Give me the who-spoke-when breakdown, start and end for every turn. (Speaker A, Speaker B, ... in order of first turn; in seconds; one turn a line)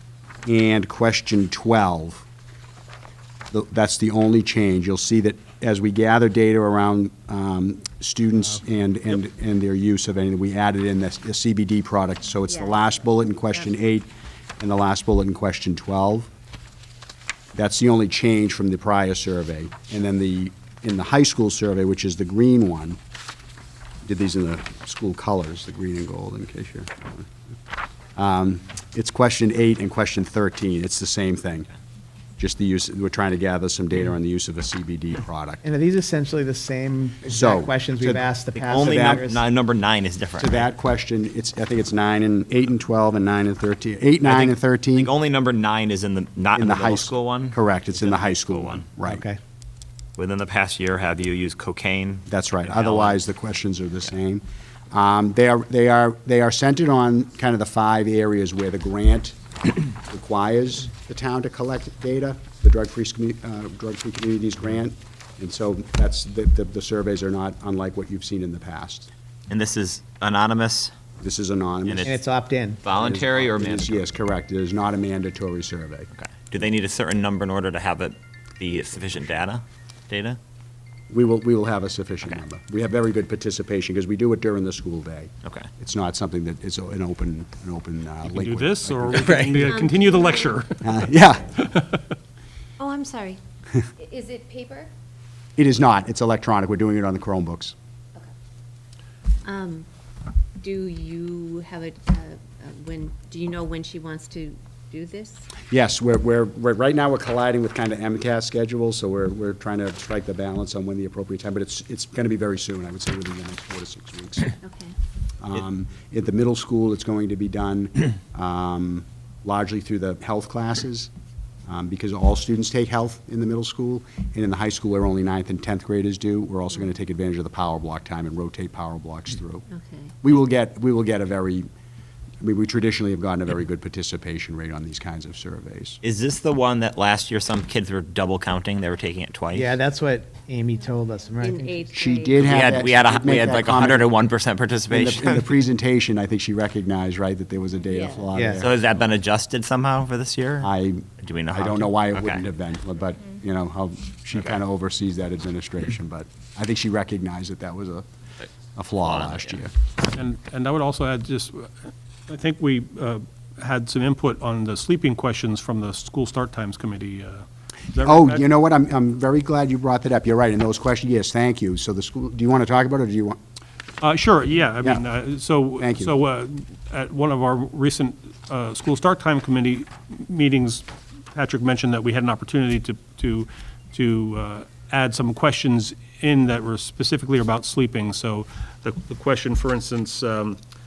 Speaker A: 0.5-2.2
Speaker A: 3.5-14.1
Speaker B: 12.5-12.9
Speaker A: 14.6-16.3
Speaker A: 17.5-23.0
Speaker A: 24.0-27.3
Speaker A: 28.1-31.7
Speaker A: 32.4-35.6
Speaker C: 35.6-39.4
Speaker A: 37.2-39.3
Speaker D: 38.5-40.7
Speaker A: 40.4-45.1
Speaker D: 44.2-48.9
Speaker A: 46.5-49.2
Speaker C: 49.0-49.4
Speaker D: 50.2-53.2
Speaker A: 52.3-69.1
Speaker D: 69.5-70.9
Speaker A: 71.2-72.2
Speaker D: 71.8-72.2
Speaker C: 72.0-72.8
Speaker D: 72.8-74.0
Speaker A: 72.9-76.1
Speaker D: 76.1-80.4
Speaker A: 81.1-89.4
Speaker E: 88.2-92.0
Speaker D: 89.2-89.5
Speaker B: 89.5-90.7
Speaker A: 90.8-91.6
Speaker B: 92.8-93.4
Speaker B: 94.0-94.9
Speaker A: 95.6-97.7
Speaker B: 99.4-99.8
Speaker B: 100.6-105.4
Speaker A: 105.7-114.5
Speaker B: 114.6-114.9
Speaker A: 115.4-121.1
Speaker A: 121.7-129.6
Speaker B: 129.7-130.1
Speaker A: 130.2-131.7
Speaker A: 132.4-136.0
Speaker D: 136.0-139.7
Speaker C: 139.5-141.9
Speaker B: 141.4-142.6
Speaker A: 141.9-144.1
Speaker D: 142.4-145.5
Speaker A: 144.9-148.7
Speaker B: 147.9-148.3
Speaker C: 148.3-148.7
Speaker D: 148.6-152.4
Speaker A: 150.6-158.1
Speaker A: 158.7-159.7
Speaker D: 159.0-159.5
Speaker E: 160.1-168.4
Speaker A: 168.0-173.4
Speaker E: 174.0-190.6
Speaker A: 175.8-176.1